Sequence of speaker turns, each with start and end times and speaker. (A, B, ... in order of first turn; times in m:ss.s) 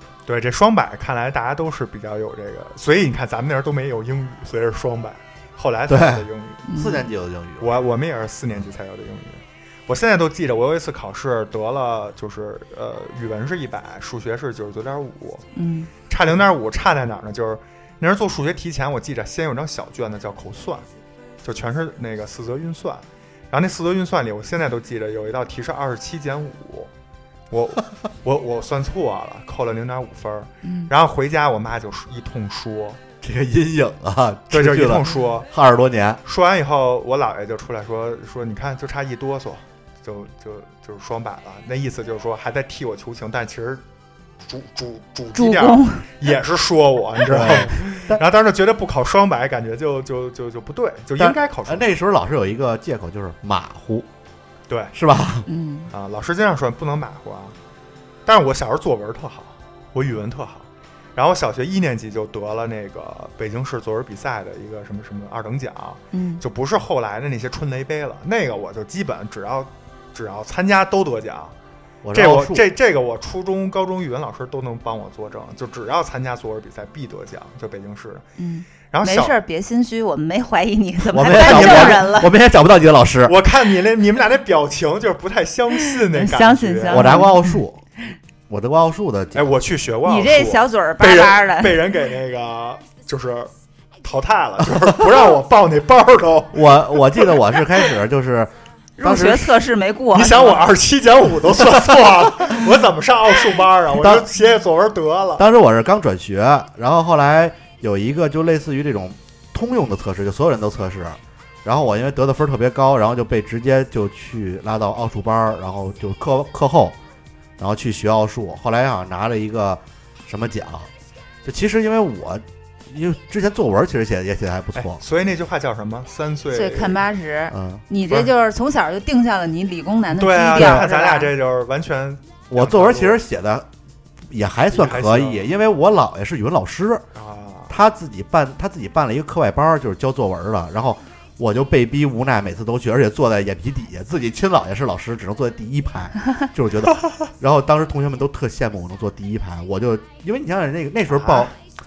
0:00.2-0:06.7 A
0:05.9-0:07.7 B
0:06.7-0:07.1 C
0:07.6-0:15.4 A
0:15.6-0:15.9 C
0:16.1-0:20.8 A
0:21.4-0:26.9 A
0:27.5-0:33.0 A
0:30.6-0:30.9 C
0:33.2-0:36.2 B
0:34.5-0:35.5 A
0:36.2-0:43.8 A
0:44.4-0:51.9 A
0:45.3-0:46.1 C
0:47.3-0:48.2 B
0:51.2-0:54.1 B
0:54.7-0:54.9 A
0:54.9-0:55.5 B
0:55.5-0:55.9 C
0:55.9-0:57.5 A
0:58.2-1:11.5 A
1:06.1-1:06.4 C
1:12.0-1:12.6 B
1:12.1-1:18.2 A
1:18.4-1:22.3 C
1:18.9-1:19.3 A
1:21.1-1:23.4 B
1:21.2-1:22.1 A
1:23.2-1:27.2 A
1:26.1-1:27.6 C
1:26.9-1:27.8 B
1:28.5-1:29.5 B
1:29.3-1:33.5 A
1:30.0-1:31.8 C
1:34.0-1:37.3 A
1:36.5-1:39.6 B
1:39.0-1:40.6 C
1:40.1-1:45.4 A
1:44.0-1:44.3 B
1:45.4-1:57.0 B
1:57.6-2:00.9 B
2:01.4-2:05.0 B
2:04.7-2:07.0 A
2:06.5-2:11.3 C
2:07.5-2:07.8 B
2:10.1-2:13.2 A
2:10.6-2:10.8 B
2:12.5-2:13.7 B
2:14.3-2:17.0 B
2:14.7-2:15.5 A
2:17.1-2:17.7 A
2:17.7-2:31.5 B
2:31.1-2:31.5 A